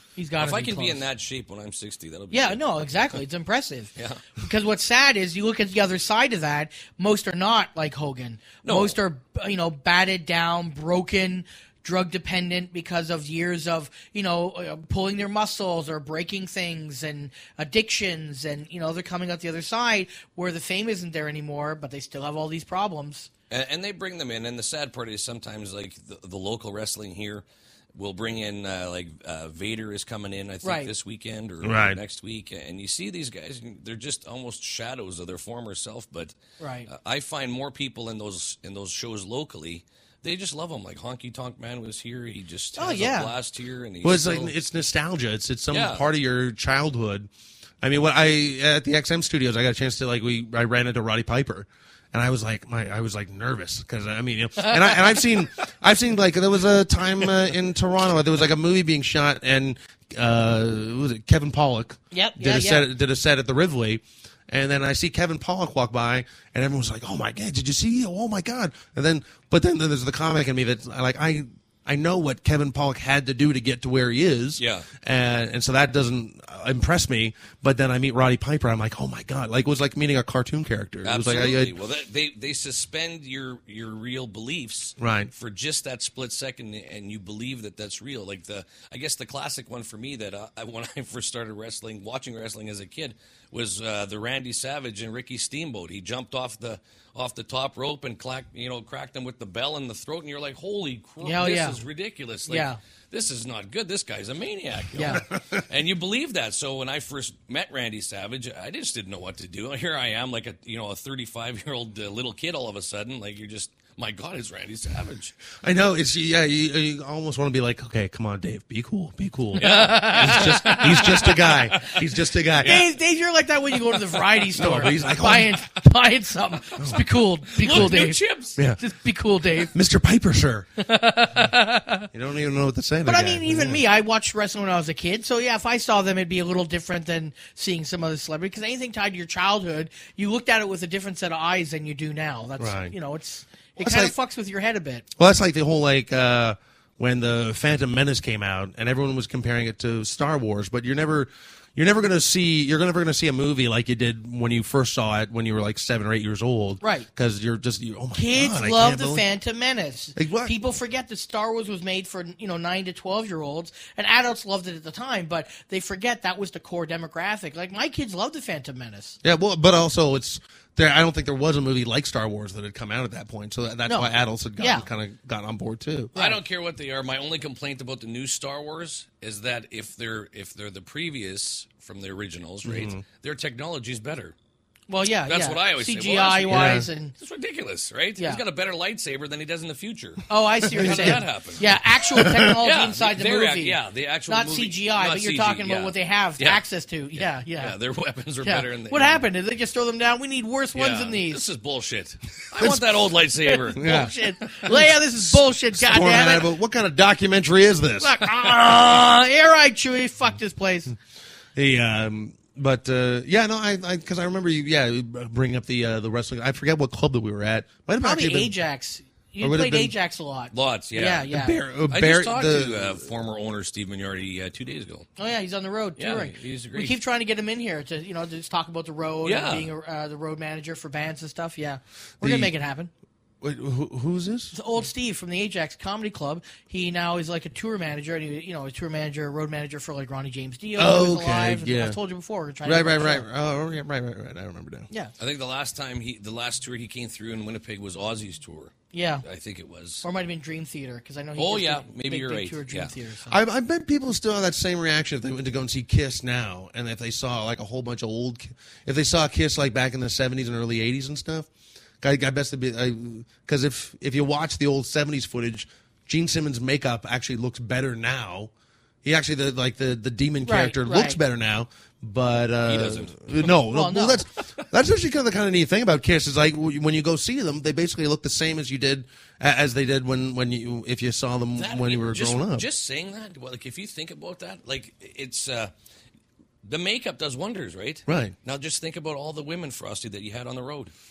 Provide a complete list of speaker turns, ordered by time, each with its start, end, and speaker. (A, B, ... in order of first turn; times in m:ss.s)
0:00.2-0:01.0 A
0:00.4-0:03.2 B
0:02.3-0:23.3 A
0:08.6-0:09.0 B
0:23.5-0:27.4 B
0:27.9-0:44.5 B
0:30.6-0:30.9 A
0:31.6-0:32.0 C
0:36.6-0:36.9 A
0:42.8-0:43.3 A
0:44.0-0:47.3 C
0:45.7-0:46.1 B
0:47.8-1:21.8 C
0:54.6-0:55.2 A
1:02.1-1:02.9 A
1:14.6-1:14.9 B
1:21.0-1:55.4 B
1:25.0-1:25.3 C
1:41.2-1:41.8 A
1:42.4-1:42.8 A
1:44.9-1:45.2 A
1:55.6-2:02.9 C
1:59.6-2:01.7 B
1:59.6-2:01.6 A
2:02.6-2:08.2 A
2:04.5-2:05.6 C
2:06.8-2:07.0 C
2:07.6-2:08.6 B
2:07.7-2:08.0 C
2:08.8-2:09.7 A
2:09.7-2:10.7 C
2:10.8-2:12.1 A
2:12.1-2:13.8 C
2:13.0-2:25.0 A
2:22.6-2:22.9 C
2:23.8-2:24.1 C
2:25.2-2:39.2 C
2:36.8-2:37.1 A
2:38.1-2:49.2 A
2:40.2-2:40.5 C
2:49.2-2:56.1 C
2:53.9-2:54.8 A
2:56.1-3:04.3 B
3:02.6-3:03.0 C
3:04.9-3:07.1 A
3:05.2-3:16.6 B
3:06.5-3:06.9 C
3:08.2-3:08.4 A
3:10.3-3:17.8 A
3:10.7-3:11.2 C
3:12.1-3:12.5 C
3:17.1-3:19.3 B
3:18.4-3:21.4 A
3:20.7-3:24.1 B
3:22.6-3:22.9 A
3:23.4-3:26.5 A
3:23.7-3:28.2 C
3:28.0-3:30.9 A
3:31.6-3:38.5 C
3:38.0-3:41.6 A
3:39.4-3:39.9 C
3:40.5-3:41.3 B
3:41.2-3:43.1 C
3:41.9-3:45.1 B
3:45.2-3:52.9 A
3:46.0-3:47.0 B
3:49.2-3:49.7 B
3:52.2-3:52.5 C
3:53.4-3:54.5 C
3:54.5-4:03.2 A
4:00.8-4:02.0 C
4:02.6-4:04.9 C
4:05.2-4:10.0 B
4:08.9-4:09.2 A
4:10.0-4:13.4 A
4:11.4-4:13.0 B
4:13.3-4:21.5 C
4:22.0-4:28.5 C
4:29.0-4:42.7 C
4:30.4-4:31.2 A
4:32.6-4:33.6 B
4:33.7-4:34.2 A
4:41.5-4:45.7 B
4:46.6-4:50.9 B
4:48.0-4:48.3 C